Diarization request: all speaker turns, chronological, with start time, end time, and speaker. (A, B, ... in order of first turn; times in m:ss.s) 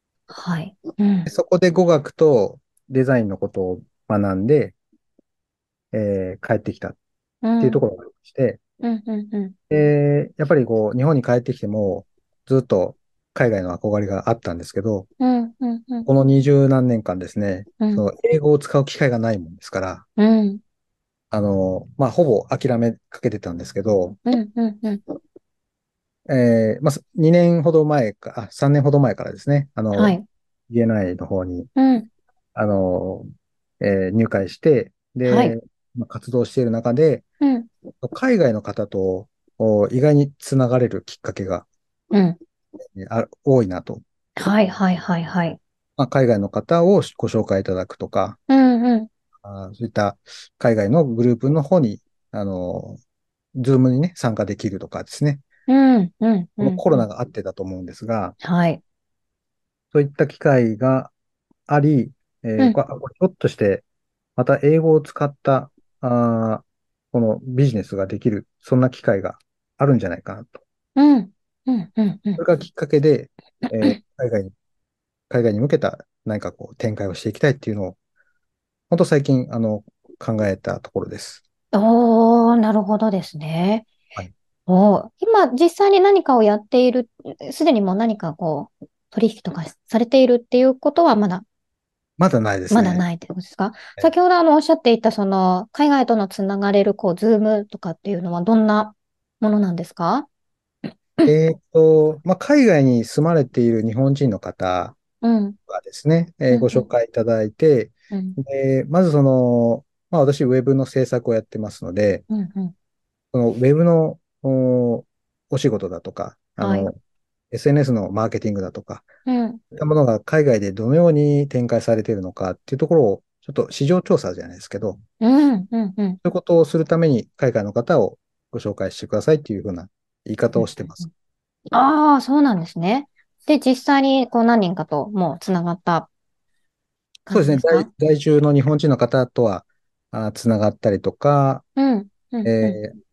0:00.3-0:01.3 A
0:01.3-0:04.8 B
0:05.9-0:07.0 B
0:07.4-0:07.8 A
0:07.6-0:08.6 B
0:08.8-0:09.6 A
0:09.7-0:15.1 B
0:15.2-0:16.1 A
0:16.1-0:20.0 B
0:17.8-0:18.0 A
0:20.2-0:20.6 A
0:21.3-0:24.2 B
0:24.3-0:25.0 A
0:26.3-0:30.2 B
0:29.9-0:30.2 A
0:30.7-0:31.7 B
0:31.8-0:32.1 A
0:32.6-0:33.3 B
0:33.8-0:37.2 B
0:35.3-0:35.6 A
0:37.4-0:37.7 A
0:38.0-0:41.7 B
0:42.1-0:42.4 A
0:43.0-0:44.0 B
0:44.4-0:45.6 A
0:46.0-0:48.4 B
0:48.5-0:49.1 A
0:49.4-0:53.0 B
0:53.6-0:55.4 B
0:55.7-0:57.1 A
0:56.6-0:58.4 B
0:58.4-0:58.8 A
0:59.9-1:01.1 B
1:01.7-1:03.8 B
1:04.4-1:10.6 B
1:11.0-1:12.4 A
1:12.4-1:14.5 B
1:13.7-1:14.0 A
1:15.3-1:18.0 B
1:18.9-1:21.4 B
1:21.7-1:23.9 A
1:24.7-1:31.5 A
1:32.2-1:33.1 B
1:32.7-1:40.3 A
1:41.3-1:45.0 B
1:45.2-1:45.6 A
1:45.7-1:52.2 B
1:46.5-1:46.9 A
1:48.1-1:48.4 A
1:52.3-1:52.7 A
1:53.3-1:57.0 B
1:56.6-1:56.9 A
1:57.5-1:59.1 B
1:59.3-1:59.6 A
1:59.7-2:05.0 B
2:05.2-2:06.2 A
2:06.2-2:11.0 B
2:10.6-2:11.1 A
2:11.7-2:16.1 A
2:17.3-2:17.9 A
2:17.3-2:21.6 B
2:21.8-2:22.8 A
2:22.4-2:22.9 B